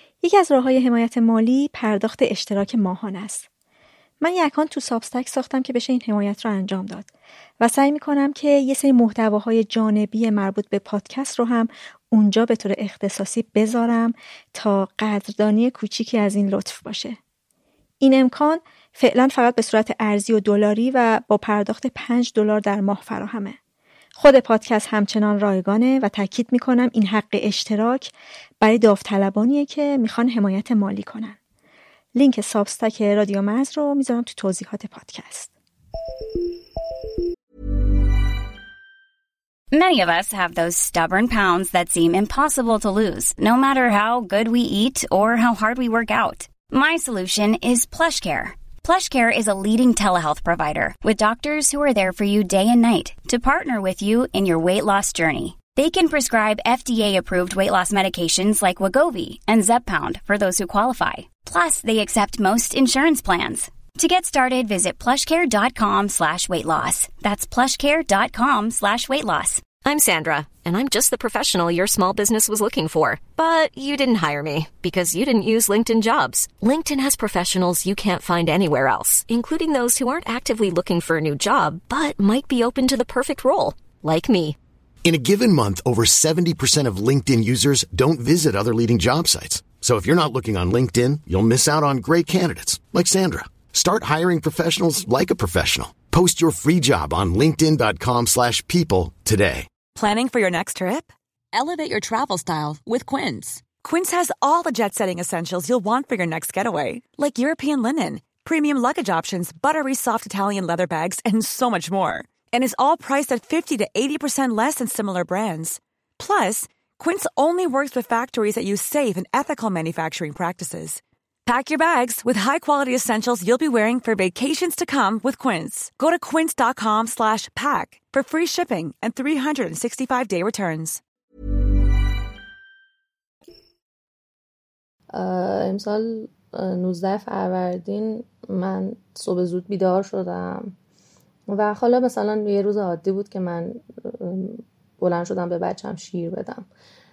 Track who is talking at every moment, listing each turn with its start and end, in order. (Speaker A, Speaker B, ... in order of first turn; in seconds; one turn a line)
Speaker A: 0.2-3.5
Speaker A: 4.2-17.2
Speaker A: 18.0-23.6
Speaker A: 24.2-31.4
Speaker A: 32.1-35.5
Speaker B: 39.7-69.7
Speaker C: 69.8-84.5
Speaker D: 85.0-99.7
Speaker E: 99.9-131.0
Speaker F: 135.1-140.7
Speaker F: 141.5-146.7